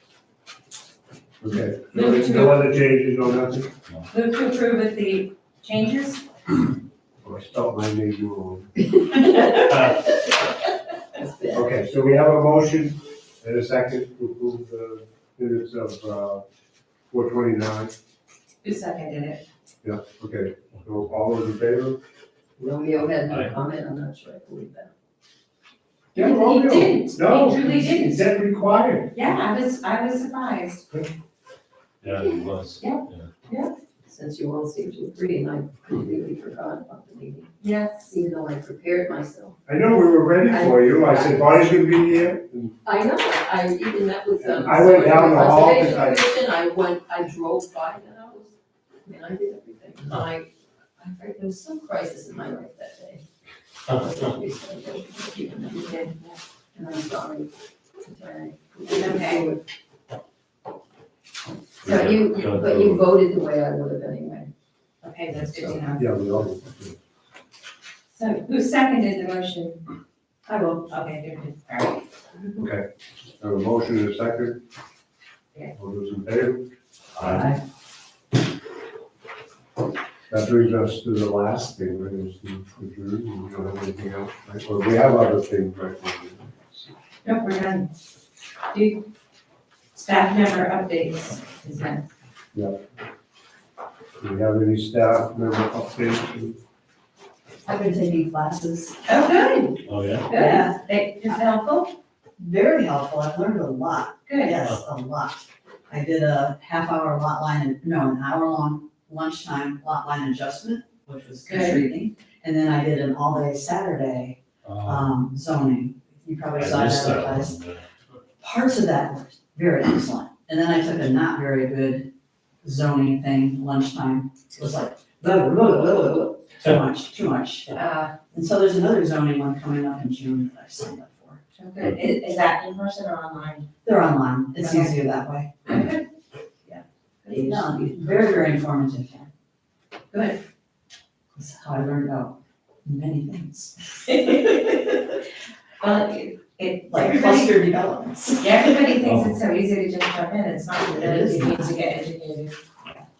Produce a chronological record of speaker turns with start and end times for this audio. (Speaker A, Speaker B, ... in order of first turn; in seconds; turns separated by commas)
Speaker A: 1.4-3.7, Speaker B: 1.9-2.6, Speaker B: 4.1-6.2, Speaker A: 7.2-8.7, Speaker C: 9.0-9.9, Speaker C: 11.2-11.7, Speaker A: 11.5-16.4, Speaker A: 17.1-17.9, Speaker B: 18.6-19.4, Speaker A: 19.8-22.0, Speaker C: 22.6-24.9, Speaker D: 23.2-23.5, Speaker B: 26.1-28.3, Speaker A: 26.1-29.1, Speaker B: 29.1-30.9, Speaker D: 32.0-33.3, Speaker B: 32.8-33.7, Speaker C: 34.0-39.6, Speaker B: 37.6-38.1, Speaker A: 39.6-42.8, Speaker C: 40.4-41.4, Speaker C: 42.8-53.2, Speaker A: 44.4-46.2, Speaker C: 53.9-56.1, Speaker B: 55.8-56.4, Speaker C: 56.7-59.6, Speaker B: 58.9-59.5, Speaker D: 61.8-63.1, Speaker C: 61.9-64.5, Speaker B: 65.0-66.4, Speaker A: 65.6-67.0, Speaker B: 68.1-69.8, Speaker E: 70.5-70.9, Speaker B: 70.9-72.0, Speaker A: 72.6-72.8, Speaker A: 73.4-74.6, Speaker A: 75.7-76.7, Speaker D: 77.2-77.4, Speaker E: 77.2-77.6, Speaker A: 80.3-86.9, Speaker B: 87.2-87.9, Speaker B: 88.7-89.0, Speaker B: 89.9-92.0, Speaker A: 94.2-96.6, Speaker E: 97.7-99.0, Speaker B: 99.1-101.9, Speaker D: 99.8-100.3, Speaker E: 100.3-101.3, Speaker E: 102.4-117.6, Speaker B: 104.3-104.6, Speaker B: 111.5-111.8, Speaker D: 114.6-115.1, Speaker D: 116.5-117.8, Speaker E: 118.4-122.1, Speaker E: 122.6-131.4, Speaker B: 127.8-128.1, Speaker B: 131.5-133.7, Speaker E: 133.8-135.7, Speaker B: 134.6-134.9, Speaker B: 135.7-136.0, Speaker B: 136.7-137.3, Speaker C: 137.3-138.2, Speaker E: 137.3-139.3, Speaker B: 140.1-140.4, Speaker E: 141.3-144.2, Speaker B: 144.1-144.8, Speaker B: 145.8-147.6, Speaker E: 146.9-148.8, Speaker B: 148.4-153.0, Speaker D: 149.0-149.4, Speaker E: 150.9-151.7